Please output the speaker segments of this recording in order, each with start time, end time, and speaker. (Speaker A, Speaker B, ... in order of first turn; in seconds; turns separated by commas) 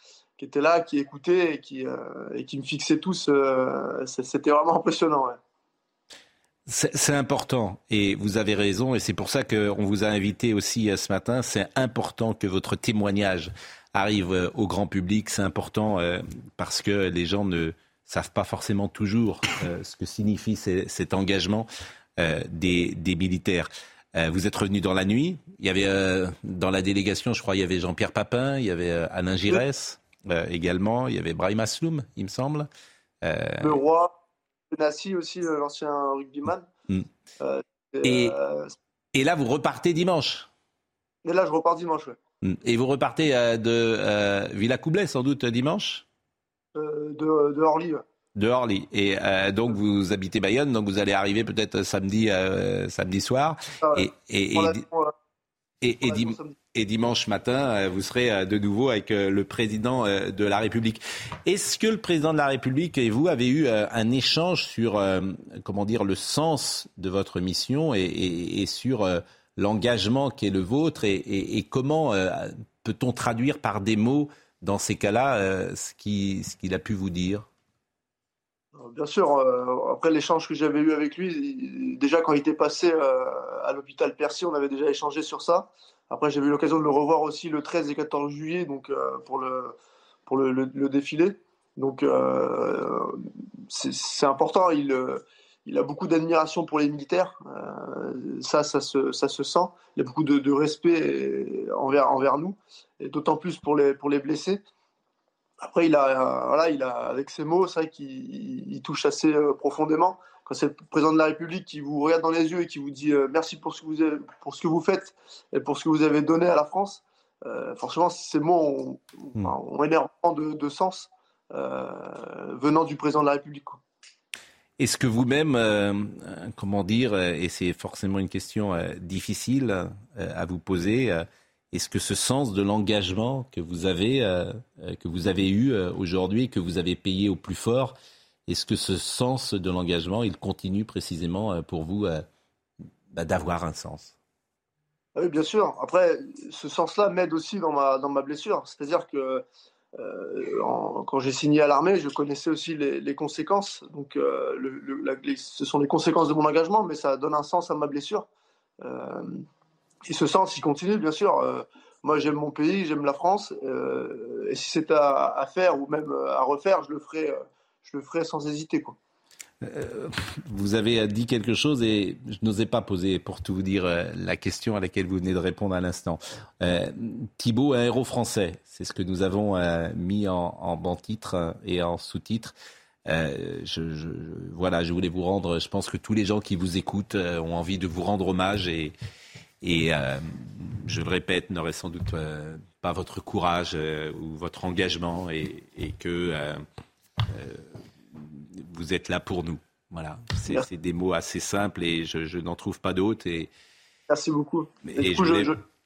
Speaker A: 0.4-5.4, Speaker B: 6.7-32.7, Speaker B: 33.2-33.8, Speaker A: 33.6-34.1, Speaker A: 34.7-36.7, Speaker A: 37.4-38.7, Speaker B: 38.0-38.4, Speaker B: 39.1-40.5, Speaker A: 41.2-42.2, Speaker B: 42.4-46.0, Speaker A: 46.7-48.0, Speaker B: 48.4-54.8, Speaker A: 53.8-55.1, Speaker B: 55.8-77.5, Speaker A: 56.0-56.5, Speaker A: 78.8-89.7, Speaker A: 90.3-93.2, Speaker A: 93.7-104.6, Speaker A: 105.6-123.8, Speaker B: 124.8-137.9, Speaker B: 138.5-142.2, Speaker B: 143.1-144.1, Speaker A: 145.2-149.4, Speaker A: 149.9-158.3, Speaker A: 158.8-159.4, Speaker A: 160.1-168.9, Speaker B: 169.6-182.5, Speaker B: 183.1-188.9, Speaker B: 189.6-196.6, Speaker B: 197.3-203.5, Speaker A: 204.1-205.6, Speaker B: 204.8-205.5